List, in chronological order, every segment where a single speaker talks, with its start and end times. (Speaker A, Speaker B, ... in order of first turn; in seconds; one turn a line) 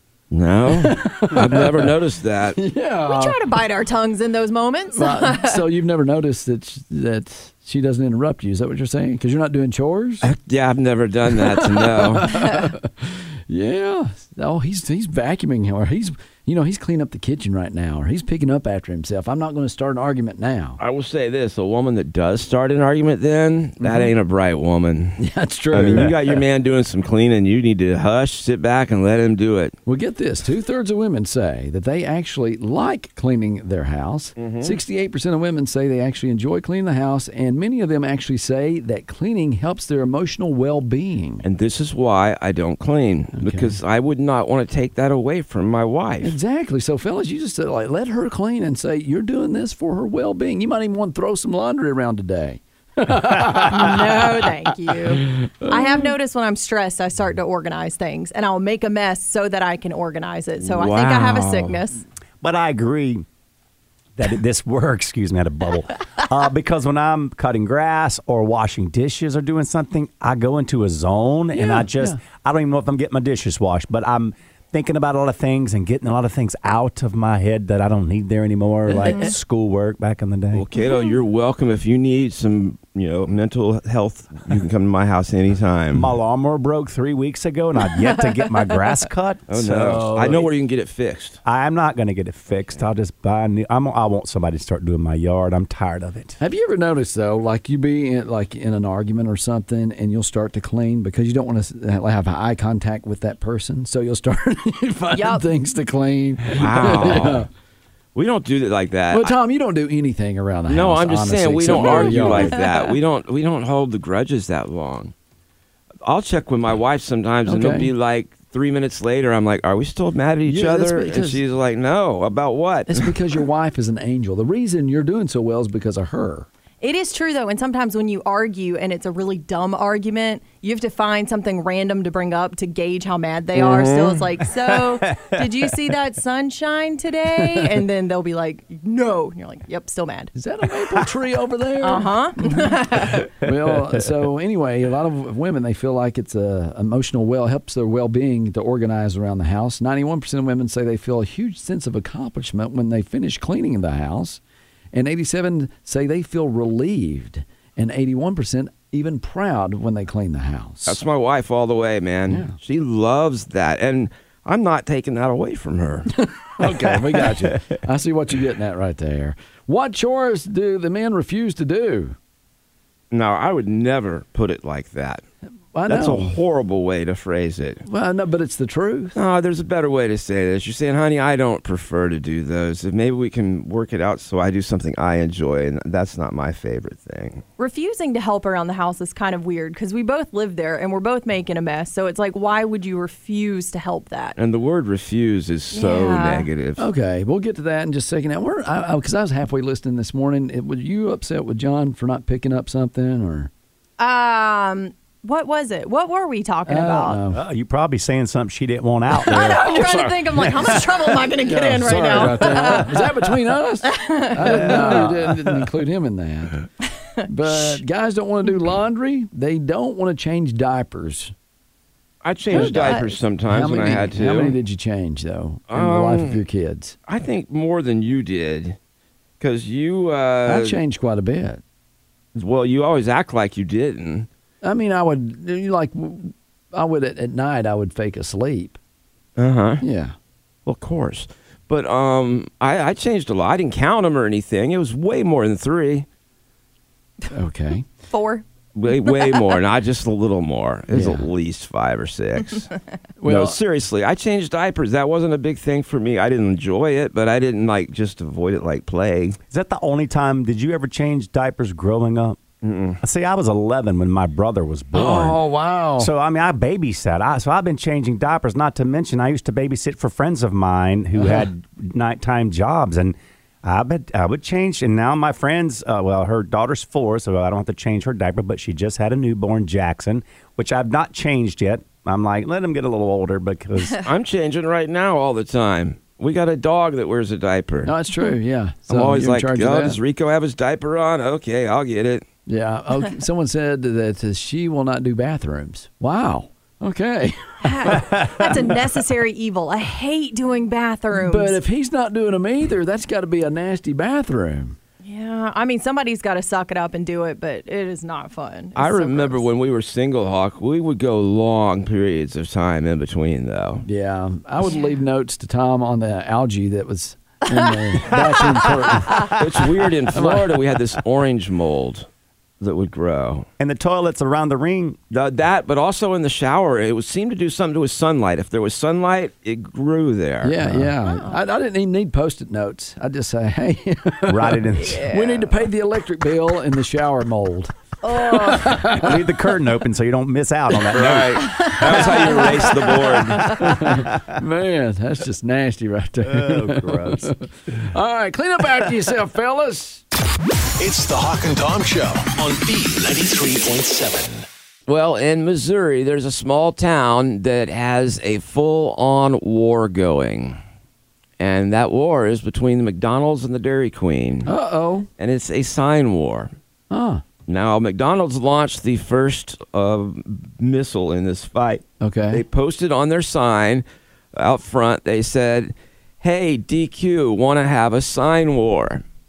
Speaker A: 0.3-2.6
Speaker B: 0.7-1.9
Speaker B: 2.6-3.4
Speaker C: 3.1-5.6
Speaker B: 4.9-10.3
Speaker A: 10.2-12.3
Speaker B: 11.5-20.8
Speaker A: 20.8-25.2
Speaker B: 23.8-24.1
Speaker B: 25.2-26.4
Speaker A: 25.7-29.7
Speaker D: 25.8-26.1
Speaker B: 29.9-41.4
Speaker A: 34.4-34.8
Speaker A: 41.4-46.3
Speaker B: 43.3-43.8
Speaker B: 46.2-54.2
Speaker C: 53.7-62.0
Speaker B: 55.2-56.0
Speaker A: 60.6-61.8
Speaker D: 62.4-63.2
Speaker D: 64.2-80.6
Speaker B: 71.5-72.2
Speaker B: 78.9-79.3
Speaker C: 79.0-79.3
Speaker A: 80.5-86.1
Speaker D: 85.9-90.4
Speaker C: 87.9-88.5
Speaker A: 89.5-91.4
Speaker B: 89.8-90.5
Speaker D: 91.4-96.4
Speaker B: 96.4-107.5
Speaker C: 105.1-105.4
Speaker A: 106.5-107.5
Speaker A: 108.1-109.3
Speaker B: 109.1-112.6
Speaker A: 110.7-115.1
Speaker C: 111.7-113.0
Speaker A: 116.0-123.1
Speaker B: 117.5-117.9
Speaker B: 120.5-121.4
Speaker B: 122.9-126.5
Speaker C: 126.8-140.3
Speaker A: 133.6-134.2
Speaker D: 134.6-135.7
Speaker B: 137.4-137.7
Speaker B: 140.3-154.4
Speaker C: 141.8-143.3
Speaker D: 143.4-144.0
Speaker B: 154.9-161.0
Speaker A: 160.8-166.1
Speaker B: 162.3-162.5
Speaker B: 166.2-172.2
Speaker D: 166.6-167.6
Speaker A: 173.1-175.2
Speaker B: 175.7-176.4
Speaker A: 175.9-177.8
Speaker B: 177.8-179.2
Speaker A: 179.1-187.4
Speaker C: 187.6-194.3
Speaker A: 194.4-196.8
Speaker C: 195.7-196.5
Speaker B: 196.8-203.5
Speaker C: 204.0-207.2
Speaker B: 206.7-207.4
Speaker D: 207.3-210.9
Speaker C: 209.2-213.0
Speaker B: 209.5-210.4
Speaker B: 211.4-216.6
Speaker C: 213.8-215.1
Speaker D: 214.7-215.6
Speaker B: 217.2-221.3
Speaker C: 217.5-217.8
Speaker A: 222.2-224.6
Speaker C: 222.5-223.2
Speaker B: 222.5-226.9
Speaker A: 225.7-226.4
Speaker A: 227.1-228.8
Speaker A: 229.4-230.8
Speaker B: 230.4-231.6
Speaker A: 232.3-234.3
Speaker B: 234.6-238.8
Speaker A: 239.4-239.8
Speaker B: 239.8-240.1
Speaker A: 240.7-246.1
Speaker B: 247.3-247.9
Speaker C: 248.1-248.4
Speaker A: 248.8-252.7
Speaker C: 249.0-249.4
Speaker B: 250.9-251.3
Speaker B: 253.2-253.6
Speaker A: 253.2-259.4
Speaker D: 259.5-262.4
Speaker A: 262.6-263.0
Speaker D: 263.0-265.4
Speaker B: 264.9-266.1
Speaker D: 266.0-284.0
Speaker A: 284.0-287.9
Speaker B: 287.8-290.0
Speaker A: 288.9-292.2
Speaker B: 292.5-298.1
Speaker C: 297.6-301.6
Speaker B: 301.1-304.8
Speaker C: 305.0-309.4
Speaker A: 308.8-313.9
Speaker B: 313.8-319.3
Speaker C: 317.5-318.1
Speaker D: 318.1-318.6
Speaker D: 319.1-319.3
Speaker A: 319.4-322.1
Speaker B: 320.1-320.6
Speaker A: 322.6-323.5
Speaker D: 323.6-325.0
Speaker A: 325.1-330.5
Speaker B: 330.4-339.2
Speaker D: 330.6-330.9
Speaker C: 331.1-331.4
Speaker D: 334.3-335.1
Speaker C: 334.8-335.5
Speaker C: 338.0-338.8
Speaker D: 338.9-342.1
Speaker A: 340.9-343.6
Speaker C: 341.4-343.6
Speaker B: 343.4-350.0
Speaker D: 343.8-344.3
Speaker D: 346.2-347.3
Speaker E: 350.8-354.4
Speaker A: 354.9-360.6
Speaker A: 361.4-364.5
Speaker B: 364.4-365.1
Speaker A: 365.2-366.5
Speaker B: 366.9-367.2
Speaker A: 367.5-379.0
Speaker B: 372.0-372.4